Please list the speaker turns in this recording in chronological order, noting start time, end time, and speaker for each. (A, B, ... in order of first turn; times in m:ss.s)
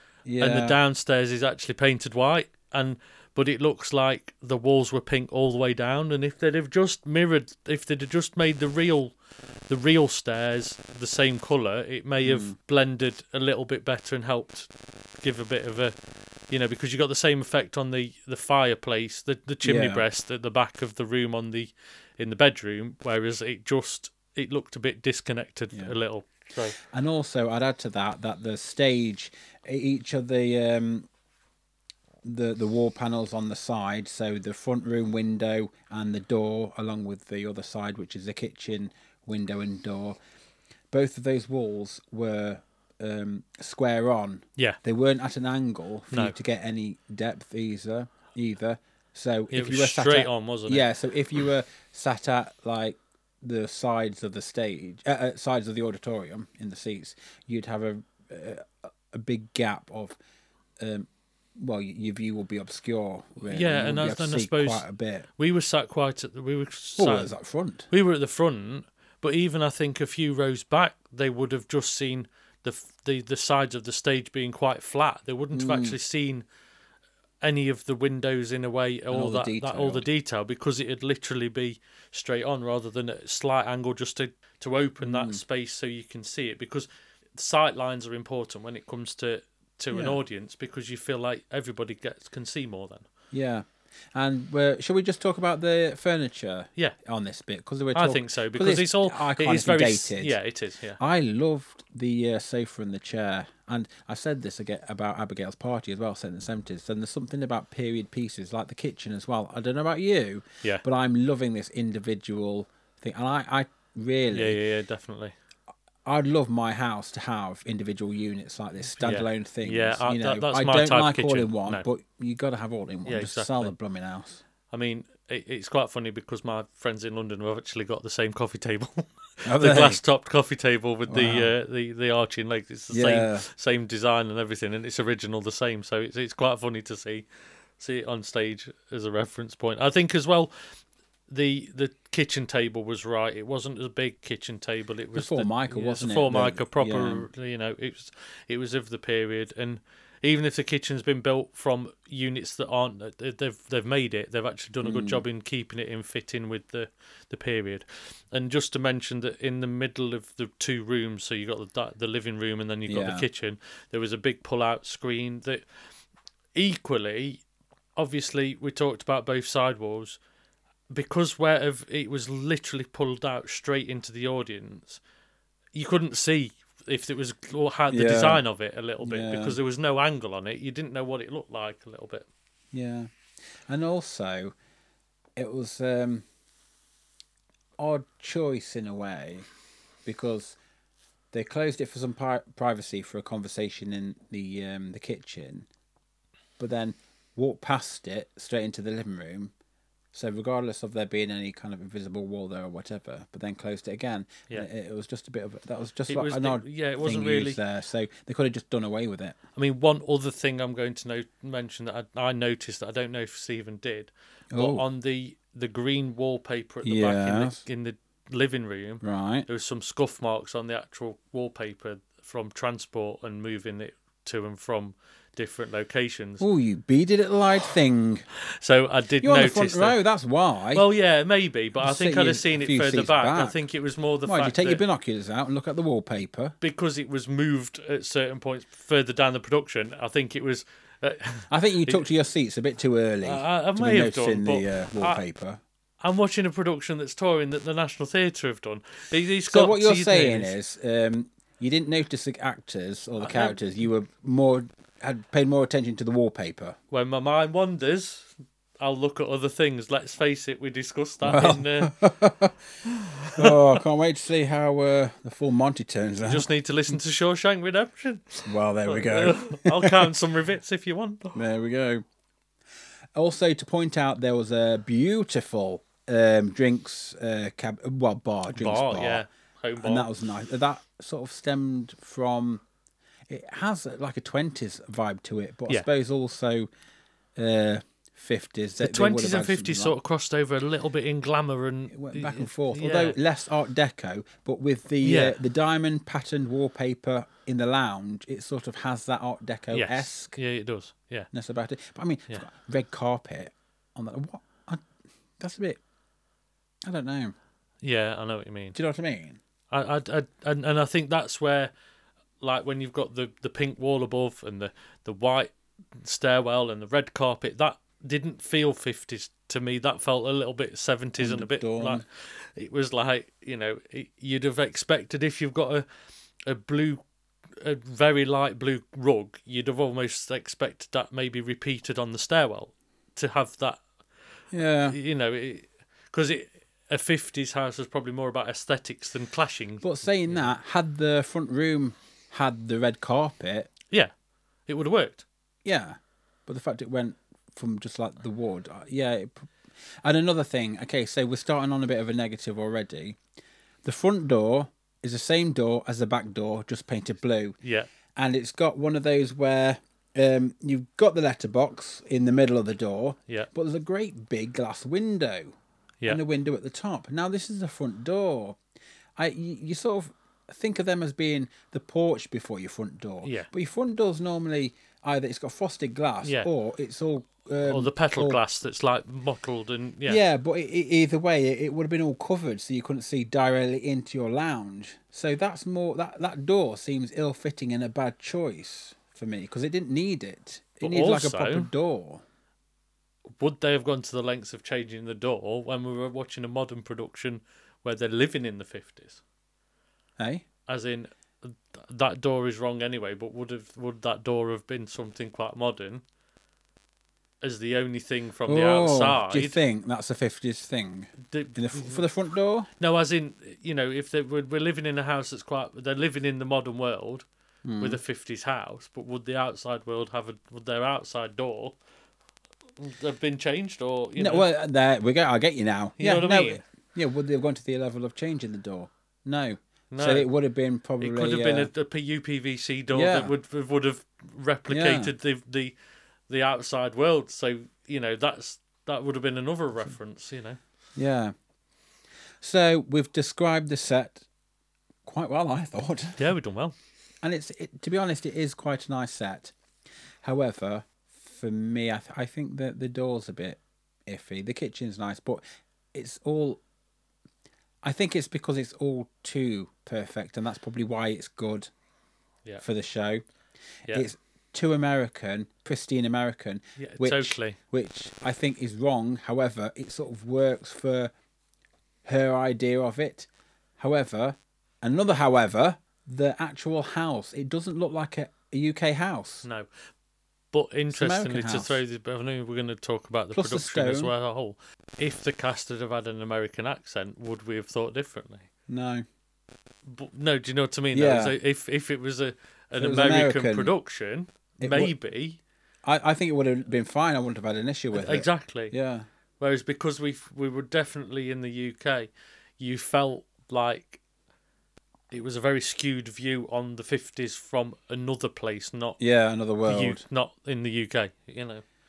0:00.2-0:00.8 A
0:00.4-0:09.1 B
0:09.7-0:15.9 B
0:12.2-0:12.5 A
0:16.5-0:26.8 B
0:19.6-0:20.0 A
0:26.8-0:31.1 A
0:32.2-0:40.2 A
0:40.9-1:00.2 A
0:49.5-0:50.9 B
1:00.8-1:05.3 A
1:03.5-1:04.8 B
1:05.4-1:07.3 B
1:07.0-1:07.9 A
1:07.9-1:16.4 B
1:15.5-1:16.0 A
1:17.4-1:33.0 B
1:19.1-1:20.0 A
1:25.0-1:25.4 A
1:29.9-1:30.2 A
1:33.3-1:40.4 A
1:37.9-1:41.0 B
1:41.0-1:54.6 A
1:54.3-1:55.3 B
1:56.0-2:04.4 A
1:59.0-2:01.8 B
2:03.0-2:03.7 B
2:04.7-2:17.2 B
2:09.4-2:10.0 A
2:11.1-2:11.5 A
2:12.9-2:13.4 A
2:17.8-2:20.5 B
2:21.3-2:45.6 B
2:25.1-2:27.3 A
2:34.8-2:35.2 A
2:42.9-2:43.3 A
2:46.5-2:47.4 B
2:48.0-2:50.2 B
2:50.9-2:55.0 B
2:55.7-3:02.3 B
2:57.9-2:58.4 A
2:59.0-2:59.6 A
3:02.7-3:03.1 A
3:03.7-3:04.5 A
3:05.4-3:06.2 A
3:07.8-3:09.5 A
3:10.0-3:10.6 A
3:11.3-3:15.7 A
3:16.6-3:19.5 A
3:20.1-3:29.4 A
3:26.1-3:27.6 B
3:29.5-3:46.5 B
3:34.5-3:34.8 A
3:36.8-3:37.6 A
3:39.0-3:39.4 A
3:46.4-3:48.2 A
3:48.6-3:50.0 B
3:49.2-3:50.8 A
3:50.7-3:54.8 B
3:51.8-3:53.6 A
3:54.2-3:56.6 A
3:56.6-4:02.0 B
4:01.5-4:05.6 A
4:03.2-4:05.2 B
4:06.0-4:10.5 B
4:09.5-4:16.8 A
4:13.2-4:13.6 B
4:16.9-4:21.9 B
4:21.2-4:22.5 A
4:22.8-4:23.6 B
4:23.4-4:26.5 A
4:26.2-4:31.4 B
4:28.4-4:30.1 A
4:31.3-4:32.0 A
4:33.1-4:39.2 A
4:38.4-4:40.1 B
4:39.8-4:42.6 A
4:43.3-4:46.7 A
4:47.4-4:49.9 A
4:48.8-4:53.2 B
4:51.9-5:00.3 A
4:55.0-4:55.4 B
4:59.7-5:01.3 B
5:01.3-5:04.9 A
5:05.4-5:05.8 A
5:06.8-5:07.3 A
5:07.8-5:08.8 B
5:08.7-5:09.4 A
5:09.7-5:11.7 B
5:12.4-5:25.8 B
5:21.2-5:22.0 A
5:26.4-5:27.0 B
5:27.6-5:33.8 B
5:34.5-5:35.0 A
5:34.8-5:40.5 B
5:39.8-5:43.7 A
5:44.7-5:45.2 B
5:45.6-5:53.2 A
5:53.8-5:57.6 A
5:57.6-5:57.9 B
5:58.2-6:08.6 A
6:09.2-6:18.4 A
6:13.2-6:13.5 B
6:16.2-6:16.5 B
6:17.6-6:20.2 B
6:20.0-6:32.2 A
6:30.8-6:31.7 B
6:33.4-6:39.2 B
6:40.2-6:40.4 A
6:40.7-6:46.0 B
6:47.4-6:49.6 B
6:48.4-6:52.7 A
6:51.2-6:52.0 B
6:52.8-6:57.2 B
6:57.6-6:58.0 A
6:57.8-7:01.8 B
7:02.8-7:04.5 B
7:04.2-7:11.7 A
7:06.0-7:06.6 B
7:09.9-7:10.3 B
7:11.0-7:15.7 B
7:12.9-7:13.3 A
7:14.7-7:15.1 A
7:16.3-7:20.6 B
7:21.0-7:21.3 A
7:22.4-7:24.2 A
7:25.0-7:26.2 A
7:26.2-7:26.7 B
7:27.2-7:29.5 A
7:30.2-7:35.4 A
7:35.9-7:36.6 A
7:37.8-7:41.7 A
7:42.6-7:43.2 A
7:43.9-7:51.1 A
7:46.8-7:47.6 B
7:52.0-7:59.4 A
8:00.5-8:08.5 B
8:00.9-8:01.8 A
8:03.3-8:04.1 A
8:08.7-8:09.0 A
8:09.9-8:15.4 B
8:10.9-8:11.3 A
8:12.8-8:13.7 A
8:14.6-8:14.9 A
8:15.8-8:19.0 A
8:17.9-8:18.7 B
8:19.4-8:24.0 B
8:25.1-8:29.0 B
8:29.0-8:30.0 A
8:29.6-8:31.6 B